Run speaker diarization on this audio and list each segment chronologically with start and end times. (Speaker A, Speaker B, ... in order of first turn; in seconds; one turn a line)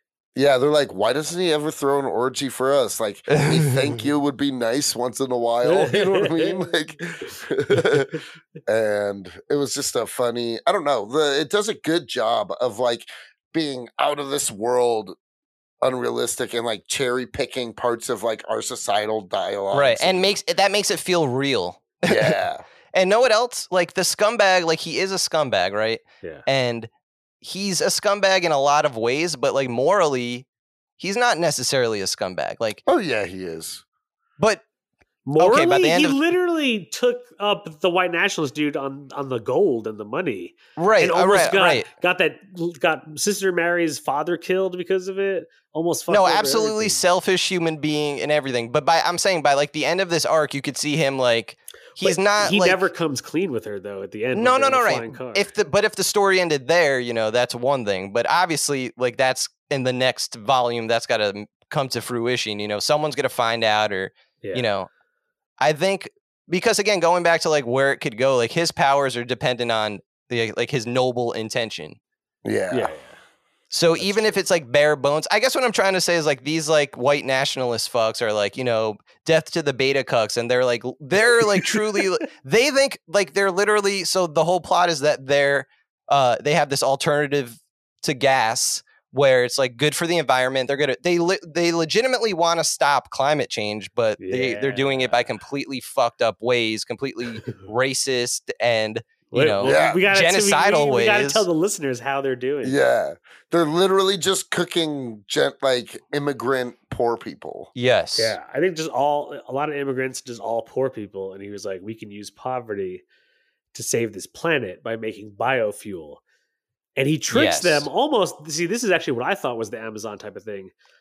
Speaker A: 0.3-15.2
Speaker B: 3.3-4.0
Speaker C: 5.7-6.6
Speaker A: 15.8-20.3
Speaker B: 19.7-22.4
Speaker A: 22.1-22.6
Speaker B: 22.9-26.9
Speaker B: 27.4-30.5
Speaker B: 31.0-32.8
Speaker A: 32.9-33.8
Speaker B: 34.4-34.6
Speaker C: 35.3-47.0
Speaker B: 35.4-36.2
Speaker B: 40.8-41.9
Speaker B: 46.1-52.8
Speaker C: 52.0-55.5
Speaker B: 54.3-64.9
Speaker B: 65.6-72.0
Speaker A: 72.5-72.9
Speaker C: 72.7-73.2
Speaker B: 73.7-101.5
Speaker C: 74.0-74.4
Speaker C: 81.4-81.8
Speaker C: 94.2-95.3
Speaker C: 99.3-102.8
Speaker A: 99.6-100.0
Speaker A: 102.6-107.7
Speaker B: 107.8-108.4
Speaker C: 108.2-113.0
Speaker C: 113.7-116.2
Speaker C: 117.0-120.7
Speaker B: 117.3-117.9